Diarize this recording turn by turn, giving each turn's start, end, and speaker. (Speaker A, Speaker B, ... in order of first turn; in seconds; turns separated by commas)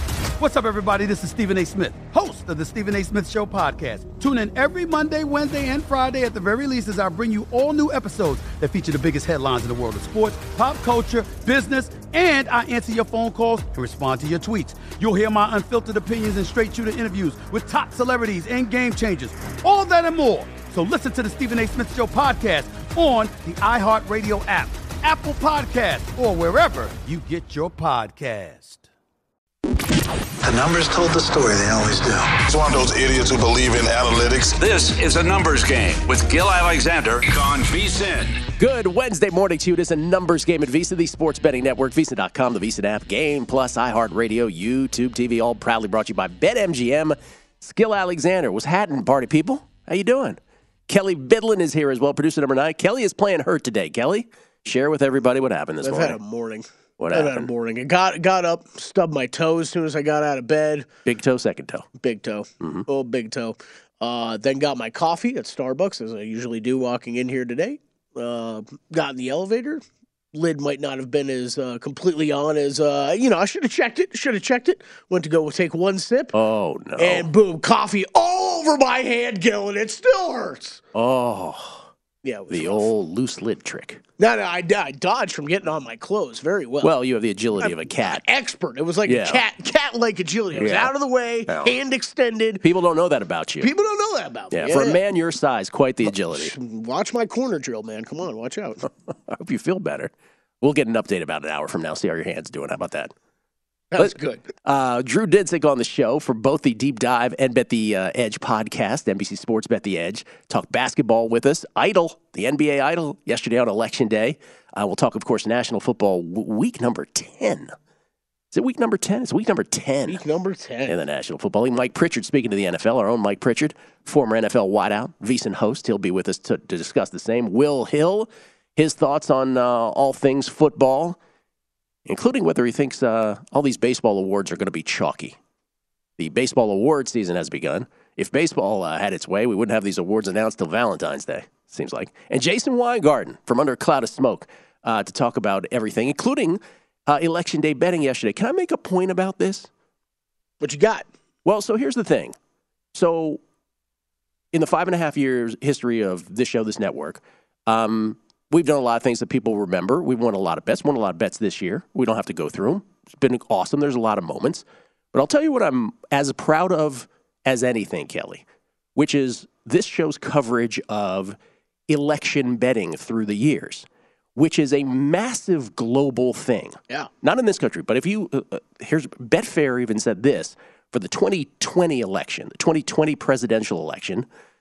Speaker A: 0.4-28.9, Speaker B: 30.4-32.4, Speaker C: 32.4-34.6, Speaker D: 34.6-38.4, Speaker E: 38.6-56.2, Speaker F: 55.8-60.9, Speaker E: 57.0-57.5, Speaker E: 61.0-61.9, Speaker F: 62.0-69.8, Speaker E: 62.6-62.9, Speaker F: 70.3-76.3, Speaker E: 76.3-77.3, Speaker F: 77.0-80.8, Speaker E: 80.9-81.9, Speaker F: 82.2-82.9, Speaker E: 82.5-84.0, Speaker F: 84.2-86.9, Speaker E: 86.8-88.2, Speaker F: 87.6-92.6, Speaker E: 89.0-89.4, Speaker E: 90.5-90.9, Speaker E: 91.5-91.7, Speaker E: 92.6-93.7, Speaker F: 93.6-95.0, Speaker E: 94.5-96.5, Speaker F: 96.3-98.8, Speaker E: 99.1-103.1, Speaker F: 103.9-104.5, Speaker E: 104.0-117.7, Speaker E: 118.5-120.2, Speaker F: 120.1-121.0, Speaker E: 120.8-131.2, Speaker E: 132.1-135.4, Speaker E: 136.2-149.7, Speaker F: 150.6-151.1, Speaker E: 151.4-152.3, Speaker E: 152.9-153.4, Speaker E: 154.5-168.4, Speaker E: 168.9-171.4, Speaker E: 171.9-184.3